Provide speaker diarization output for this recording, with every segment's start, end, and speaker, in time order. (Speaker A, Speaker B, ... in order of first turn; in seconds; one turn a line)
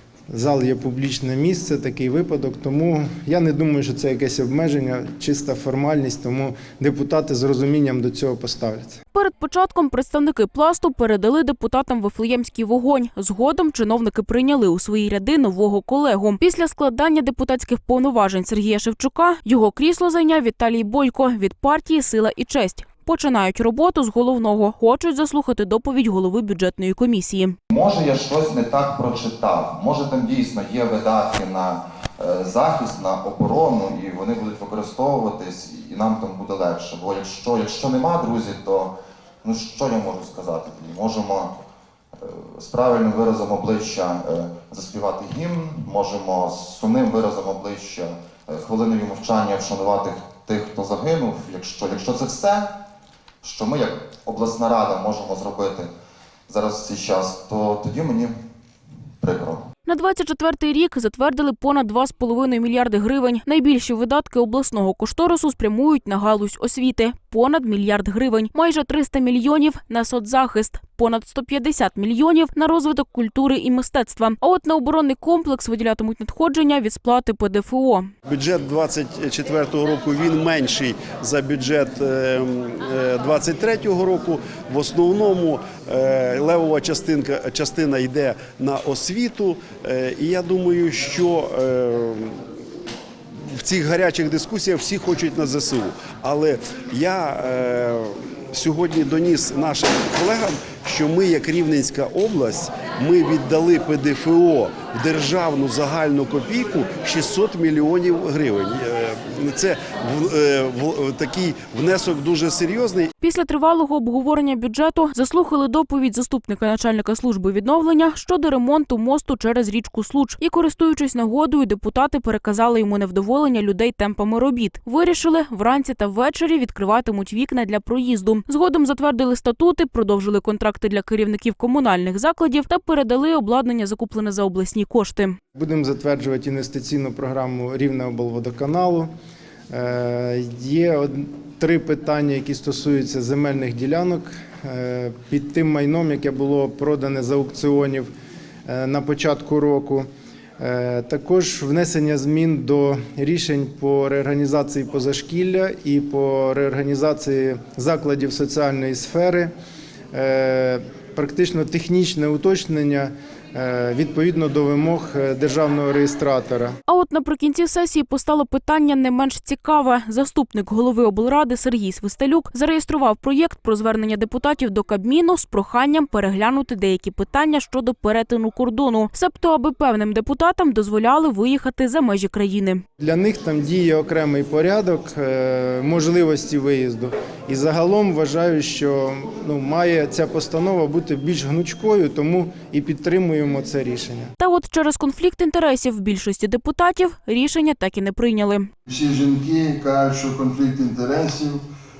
Speaker A: 0.3-9.0
Speaker B: 9.1-27.6
Speaker C: 27.7-41.5
Speaker C: 42.2-52.7
Speaker C: 53.4-55.9
Speaker C: 56.5-58.3
Speaker C: 59.2-59.6
Speaker B: 59.9-78.1
Speaker D: 78.2-92.4
Speaker D: 93.5-113.1
Speaker B: 113.2-135.4
Speaker A: 135.5-139.1
Speaker A: 139.7-148.1
Speaker A: 148.7-150.1
Speaker A: 150.6-159.5
Speaker A: 160.1-166.8
Speaker B: 166.9-182.8
Speaker A: 183.0-194.3
Speaker B: 194.4-198.7
Speaker E: 198.9-201.6